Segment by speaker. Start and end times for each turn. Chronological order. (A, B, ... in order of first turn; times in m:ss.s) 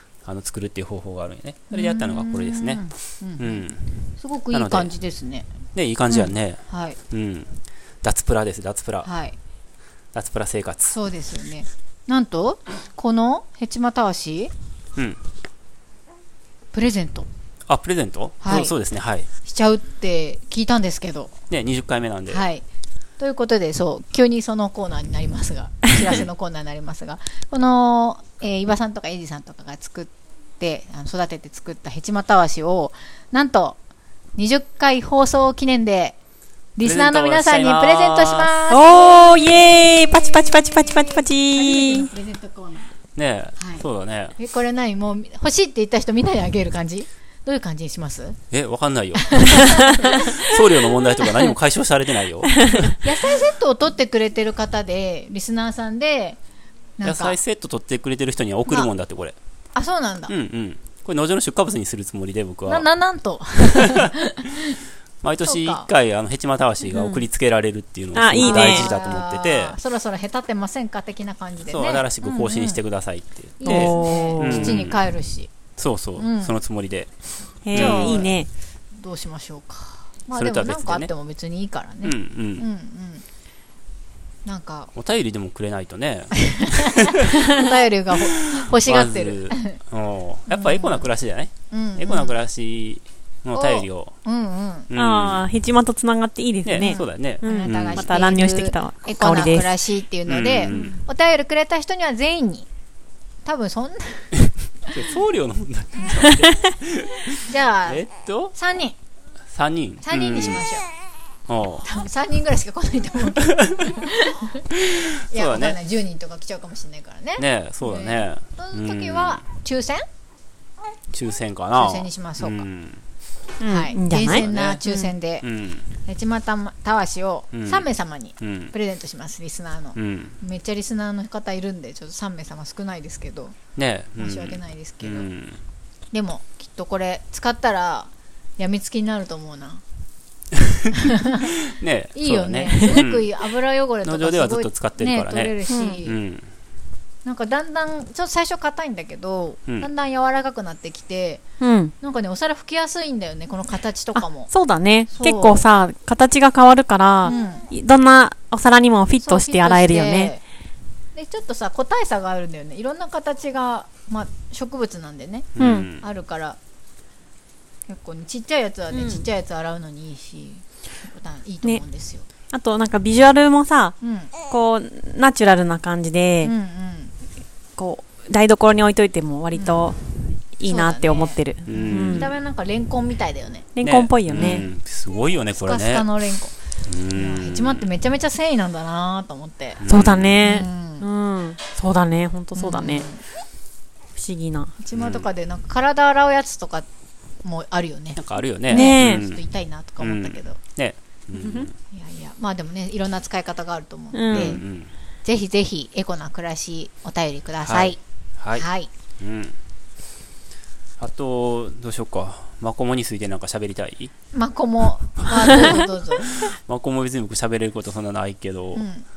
0:00.2-0:03.9 A
0:01.7-0:05.5 B
0:04.5-0:04.9 A
0:05.7-0:09.1 A
0:06.1-0:07.0 B
0:09.0-0:09.4 B
0:10.1-0:10.9 A
0:10.9-0:14.5 B
0:15.0-0:15.2 A
0:16.7-0:17.3 B
0:17.7-0:19.3 A
0:18.4-0:18.8 B
0:19.4-0:21.3 B
0:21.5-0:22.4 A
0:22.3-0:22.6 B
0:23.2-0:33.8 B
0:34.4-0:36.2 B
0:36.8-0:42.9 B
0:36.8-0:38.6 A
0:38.7-0:42.1 C
0:43.2-0:44.4 A
0:43.6-0:43.8 B
0:44.4-0:48.4 B
0:48.5-0:53.0 A
0:49.2-0:50.9 B
0:53.0-0:56.4 B
0:57.0-0:57.4 B
0:57.0-0:59.4 A
0:59.7-1:00.3 B
1:00.3-1:02.9 A
1:02.7-1:04.8 B
1:03.7-1:04.1 A
1:05.2-1:09.8 A
1:05.4-1:05.9 B
1:06.9-1:07.2 C
1:08.1-1:08.9 C
1:08.4-1:12.8 B
1:11.7-1:15.0 A
1:13.6-1:15.5 B
1:13.6-1:14.8 C
1:15.8-1:17.1 A
1:16.2-1:16.5 B
1:17.6-1:18.5 C
1:17.7-1:18.3 A
1:17.7-1:18.4 B
1:19.0-1:23.2 B
1:20.3-1:21.1 A
1:22.0-1:22.7 A
1:24.4-1:24.9 B
1:24.9-1:27.4 A
1:26.4-1:29.8 B
1:28.6-1:34.1 A
1:30.5-1:31.1 B
1:31.7-1:32.3 B
1:33.5-1:34.9 B
1:34.9-1:35.5 A
1:34.9-1:39.8 C
1:36.6-1:38.2 A
1:36.8-1:42.7 B
1:40.3-1:41.0 A
1:40.7-1:41.0 C
1:43.4-1:44.3 B
1:44.9-1:48.5 A
1:47.4-1:49.0 B
1:49.5-1:50.6 A
1:50.0-1:50.9 B
1:51.5-1:51.9 A
1:51.8-1:54.6 B
1:55.2-2:00.0 B
1:55.3-1:55.8 A
1:57.4-1:59.4 A
2:01.1-2:03.0 A
2:01.7-2:02.6 B
2:03.6-2:04.4 C
2:03.6-2:05.5 B
2:04.3-2:05.9 A
2:06.0-2:13.6 B
2:07.5-2:07.8 A
2:08.4-2:08.7 A
2:09.9-2:10.4 A
2:13.8-2:15.6 A
2:14.2-2:15.3 B
2:16.1-2:19.8 B
2:21.0-2:21.5 B
2:21.7-2:23.3 A
2:22.1-2:26.2 B
2:24.0-2:26.5 A
2:25.7-2:26.0 C
2:27.2-2:31.4 B
2:31.6-2:31.9 C
2:32.0-2:34.5 B
2:34.1-2:40.3 C
2:35.1-2:35.6 B
2:37.2-2:37.7 B
2:39.2-2:40.4 B
2:41.1-2:46.6 B
2:45.6-2:46.0 A
2:45.6-2:45.9 C
2:47.9-2:52.3 B
2:48.9-2:49.2 C
2:52.5-2:56.5 C
2:54.0-2:54.3 B
2:56.4-2:57.1 B
2:57.8-3:02.3 C
2:59.5-2:59.9 B
3:00.6-3:03.7 B
3:01.7-3:02.3 A
3:03.8-3:04.7 C
3:03.8-3:06.1 A
3:05.5-3:06.5 B
3:06.8-3:07.9 A
3:07.1-3:09.8 B
3:09.8-3:10.5 A
3:09.8-3:13.1 C
3:10.4-3:11.1 B
3:12.6-3:13.2 B
3:14.2-3:14.7 C
3:14.8-3:16.9 B
3:14.9-3:15.3 A
3:17.4-3:20.6 B
3:18.2-3:19.4 A
3:18.7-3:19.2 C
3:20.0-3:21.8 A
3:21.9-3:24.6 B
3:24.1-3:24.6 C
3:24.3-3:24.9 A
3:25.2-3:28.0 B
3:27.6-3:28.6 A
3:28.6-3:28.9 B
3:29.2-3:29.6 A
3:31.0-3:34.1 A
3:34.3-3:36.4 B
3:35.2-3:38.9 A
3:38.8-3:39.0 B